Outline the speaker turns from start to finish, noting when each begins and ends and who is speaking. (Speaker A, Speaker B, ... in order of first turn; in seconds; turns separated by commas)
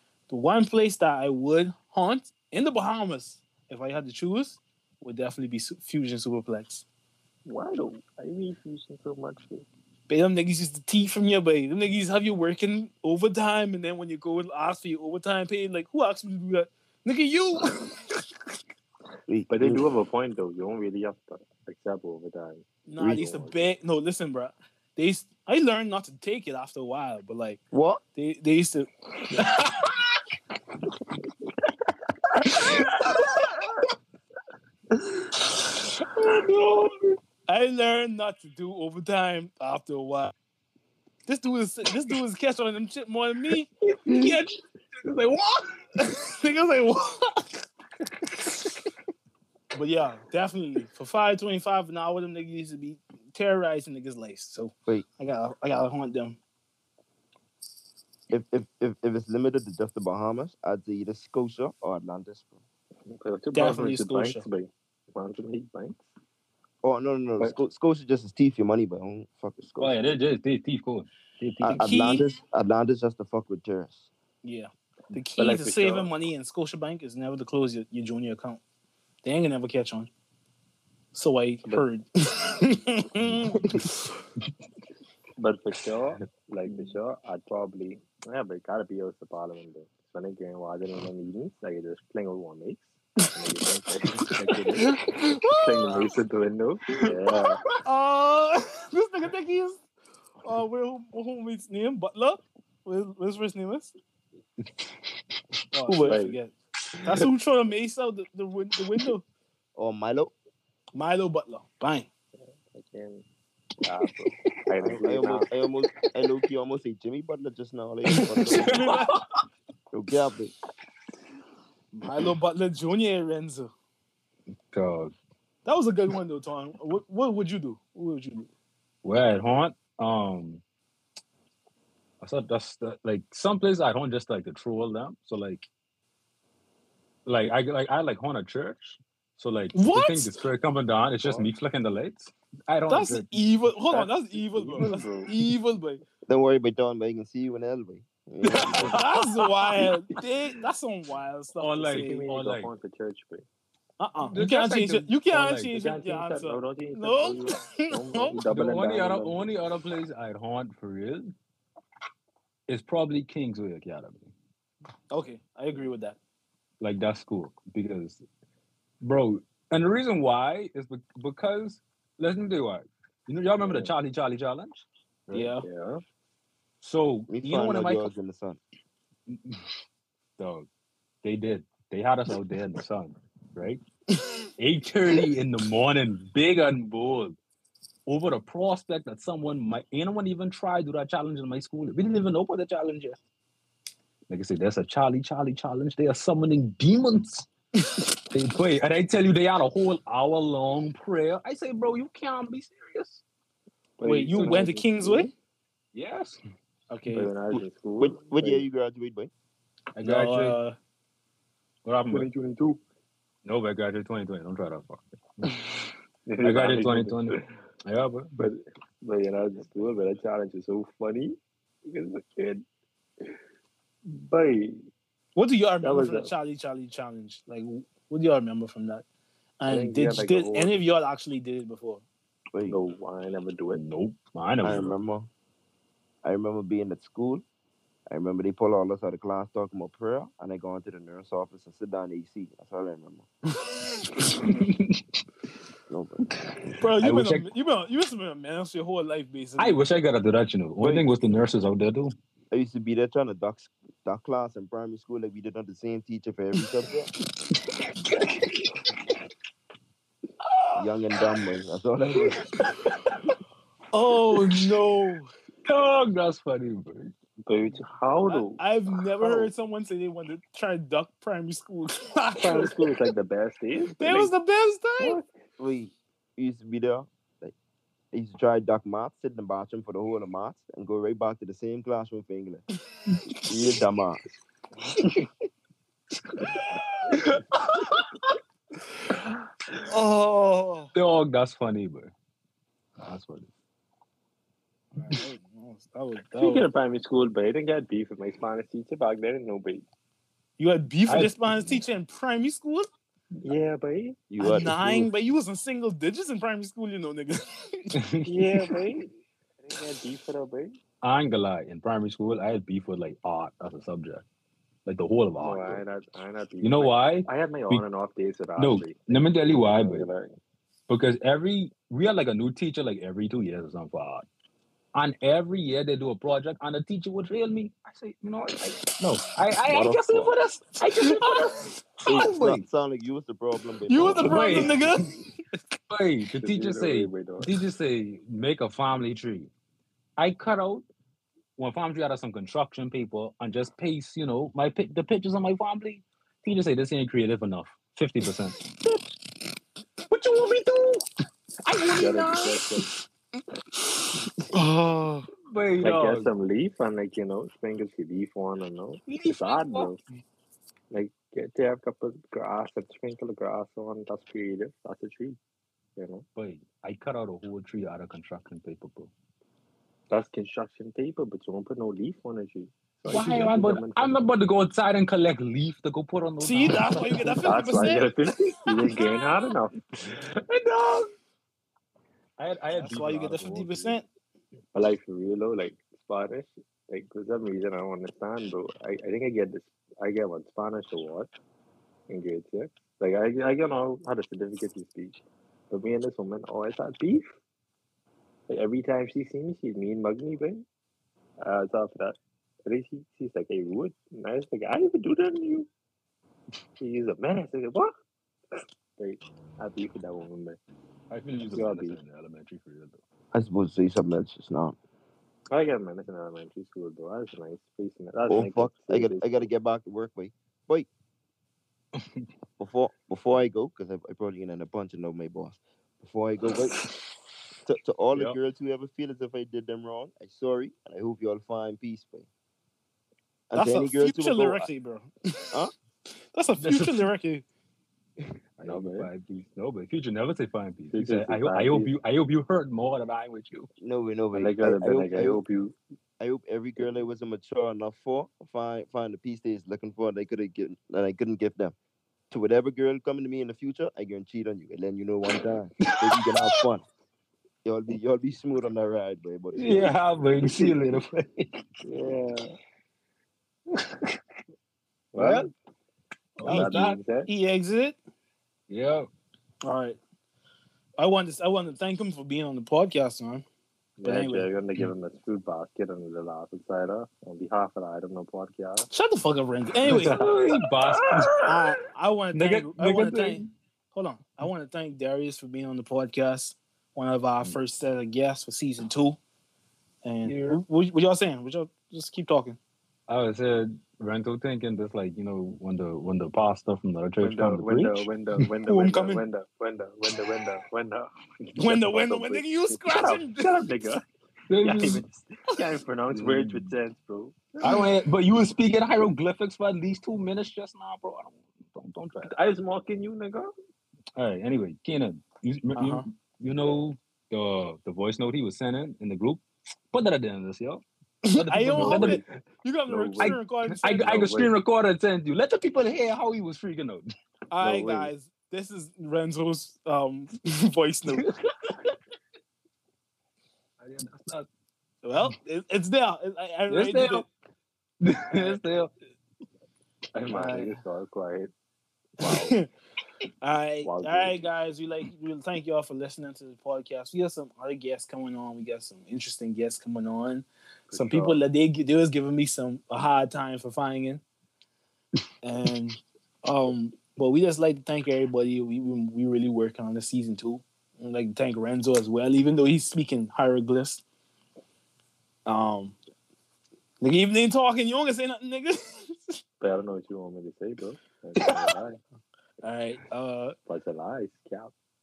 Speaker A: 0.3-6.8, Speaker B: 7.5-9.7, Speaker A: 10.1-18.2, Speaker C: 19.3-19.9, Speaker B: 19.5-23.7, Speaker A: 22.9-27.6, Speaker C: 23.0-23.2, Speaker C: 27.7-28.0, Speaker A: 28.1-29.8, Speaker D: 29.5-29.9, Speaker A: 32.5-33.0, Speaker D: 32.5-33.7, Speaker D: 36.0-37.2, Speaker A: 37.5-40.3, Speaker A: 41.3-44.4, Speaker D: 43.9-44.4, Speaker D: 45.0-45.6, Speaker A: 45.9-47.6, Speaker A: 49.7-56.4, Speaker C: 58.3-62.6, Speaker B: 63.0-66.0, Speaker A: 63.5-64.5, Speaker C: 66.8-70.0, Speaker D: 69.8-72.2, Speaker C: 71.6-74.1, Speaker A: 71.8-72.2, Speaker A: 74.4-78.6, Speaker B: 75.4-76.1, Speaker A: 79.2-80.1, Speaker A: 81.1-83.6, Speaker D: 83.3-83.9, Speaker B: 85.4-97.6, Speaker A: 94.8-95.8, Speaker D: 97.0-97.7, Speaker A: 97.8-99.8, Speaker A: 100.4-103.9, Speaker A: 105.7-109.2, Speaker B: 106.0-106.4, Speaker D: 106.9-107.3, Speaker C: 109.7-110.3, Speaker A: 110.9-112.1, Speaker B: 112.4-113.2, Speaker B: 113.8-115.5, Speaker C: 114.8-118.8, Speaker A: 118.1-119.1, Speaker D: 118.5-119.2, Speaker C: 119.9-120.5, Speaker A: 122.0-123.7, Speaker D: 124.7-125.1, Speaker A: 125.6-128.5, Speaker D: 129.0-130.6, Speaker D: 132.2-135.7, Speaker D: 137.2-144.1, Speaker A: 139.7-140.4, Speaker B: 141.2-141.5, Speaker A: 142.9-146.0, Speaker B: 144.4-145.3, Speaker C: 146.3-149.0, Speaker D: 148.5-149.2, Speaker A: 148.7-152.2, Speaker D: 151.6-152.7, Speaker B: 151.9-153.4, Speaker A: 154.0-158.4, Speaker D: 154.2-155.8, Speaker B: 155.7-159.5, Speaker D: 158.4-161.3, Speaker D: 162.7-164.3, Speaker A: 165.1-166.2, Speaker D: 166.8-168.2, Speaker D: 169.0-175.5, Speaker B: 173.6-173.9, Speaker A: 175.3-175.6, Speaker B: 175.6-176.0, Speaker D: 176.8-178.1, Speaker C: 177.3-178.6, Speaker D: 179.3-179.7, Speaker D: 180.4-180.7, Speaker D: 181.2-183.8, Speaker A: 184.2-184.4, Speaker D: 184.6-187.4, Speaker D: 188.1-193.2, Speaker D: 194.3-197.5, Speaker D: 198.3-203.2, Speaker B: 204.0-205.3, Speaker A: 204.0-205.3, Speaker D: 205.9-206.4, Speaker A: 206.9-207.3, Speaker B: 207.1-208.7, Speaker C: 207.5-209.3, Speaker D: 209.9-210.6, Speaker A: 210.0-210.8, Speaker D: 211.8-212.3, Speaker B: 212.1-212.8, Speaker D: 213.4-215.7, Speaker B: 216.3-217.4, Speaker D: 216.4-218.4, Speaker B: 218.4-222.6, Speaker B: 224.1-224.8, Speaker A: 225.3-229.0, Speaker B: 225.8-226.3, Speaker A: 229.6-232.0, Speaker B: 229.7-230.8, Speaker C: 232.5-232.8, Speaker B: 232.7-233.8, Speaker D: 233.7-234.9, Speaker C: 234.6-235.3, Speaker C: 236.2-237.4, Speaker C: 238.1-243.3, Speaker D: 244.2-245.0, Speaker C: 245.9-246.2, Speaker D: 246.6-247.5, Speaker A: 246.7-249.8, Speaker D: 249.6-252.1, Speaker B: 250.8-251.1, Speaker C: 252.5-257.1, Speaker D: 257.5-258.9, Speaker C: 260.8-262.5, Speaker D: 262.1-263.3, Speaker A: 263.9-265.3, Speaker D: 264.4-264.8, Speaker D: 265.6-267.1, Speaker B: 267.4-268.6, Speaker A: 268.2-272.9, Speaker B: 272.4-274.3, Speaker A: 274.0-275.2, Speaker B: 275.0-275.3, Speaker C: 275.6-277.5, Speaker C: 278.1-282.6, Speaker C: 283.5-284.2, Speaker A: 286.6-287.4, Speaker A: 289.8-290.9, Speaker D: 290.9-292.1, Speaker D: 293.0-293.5, Speaker A: 294.9-296.7, Speaker B: 296.4-299.9, Speaker A: 300.6-302.9, Speaker D: 301.1-301.8, Speaker B: 303.4-304.2, Speaker D: 304.3-305.1, Speaker C: 304.3-304.7, Speaker A: 304.4-307.9, Speaker D: 308.0-308.5, Speaker B: 308.2-309.1, Speaker B: 309.6-310.8, Speaker D: 311.0-314.2, Speaker D: 314.9-315.8, Speaker B: 315.4-320.4, Speaker D: 316.6-317.9, Speaker D: 318.6-320.1, Speaker D: 320.9-324.2, Speaker D: 324.9-332.6, Speaker C: 329.6-330.4, Speaker A: 330.9-331.8, Speaker C: 332.1-334.8, Speaker A: 333.9-335.3, Speaker D: 334.0-335.1, Speaker D: 335.9-339.5, Speaker B: 336.4-337.5, Speaker D: 340.2-340.9, Speaker D: 341.6-348.6, Speaker D: 350.1-351.0, Speaker D: 351.6-352.6, Speaker B: 351.9-352.9, Speaker A: 354.5-355.3, Speaker D: 355.4-356.3, Speaker B: 355.8-360.0, Speaker D: 359.1-359.9, Speaker B: 360.9-365.4, Speaker B: 366.0-366.2, Speaker D: 366.3-369.1, Speaker B: 370.1-374.2, Speaker D: 373.1-377.4, Speaker A: 376.4-378.1, Speaker B: 376.9-379.8, Speaker D: 380.0-381.1, Speaker D: 382.4-384.0, Speaker A: 382.7-384.1, Speaker B: 384.7-391.3, Speaker B: 392.1-397.3, Speaker B: 398.5-400.6, Speaker B: 401.4-405.7, Speaker B: 406.8-407.9, Speaker B: 408.5-410.6, Speaker D: 411.1-413.0, Speaker B: 411.4-412.0, Speaker C: 413.3-414.8, Speaker B: 415.5-419.5, Speaker C: 418.3-420.9, Speaker D: 422.0-422.3, Speaker C: 422.6-426.8, Speaker C: 427.6-432.3, Speaker C: 433.5-434.7, Speaker A: 433.5-435.4, Speaker A: 436.3-437.4, Speaker D: 436.6-437.1, Speaker B: 438.6-439.1, Speaker D: 438.6-443.7, Speaker B: 440.9-441.9, Speaker C: 443.8-445.4, Speaker B: 444.3-445.7, Speaker C: 446.2-451.7, Speaker C: 452.3-456.9, Speaker D: 455.9-456.6, Speaker C: 457.6-460.0, Speaker D: 459.5-461.7, Speaker B: 461.8-462.5, Speaker D: 463.7-464.2, Speaker B: 465.1-465.5, Speaker D: 465.2-465.5, Speaker A: 466.4-468.0, Speaker D: 466.4-466.8, Speaker B: 466.4-467.3, Speaker D: 468.7-469.1, Speaker A: 469.6-470.0, Speaker A: 471.0-473.4, Speaker B: 474.0-478.9, Speaker A: 474.0-474.5, Speaker A: 478.9-480.3, Speaker D: 479.8-481.6, Speaker B: 479.9-480.5, Speaker A: 481.4-489.2, Speaker D: 482.3-483.5, Speaker A: 490.0-492.6, Speaker D: 490.2-490.6, Speaker D: 493.1-498.5, Speaker B: 497.2-504.0, Speaker A: 498.6-499.2, Speaker A: 501.6-503.6, Speaker D: 504.5-505.1, Speaker B: 504.6-507.6, Speaker D: 506.1-506.7, Speaker D: 507.6-512.3, Speaker B: 512.2-513.5, Speaker D: 514.1-522.2, Speaker A: 515.7-516.0, Speaker A: 521.2-524.2, Speaker B: 521.6-522.2, Speaker B: 522.9-523.4, Speaker D: 523.2-527.1, Speaker B: 524.0-524.5, Speaker A: 527.5-531.3, Speaker B: 527.6-528.1, Speaker D: 531.2-531.9, Speaker D: 533.8-534.5, Speaker A: 535.0-537.3, Speaker D: 536.7-537.3, Speaker D: 538.0-538.9, Speaker B: 540.1-541.5, Speaker A: 540.3-540.8, Speaker A: 542.2-542.7, Speaker B: 542.2-542.5, Speaker A: 543.4-554.2, Speaker B: 543.8-544.5, Speaker B: 550.9-551.4, Speaker A: 555.4-564.0, Speaker A: 565.5-566.0, Speaker A: 567.0-569.4, Speaker B: 569.6-572.0, Speaker A: 572.6-573.5, Speaker B: 573.7-574.7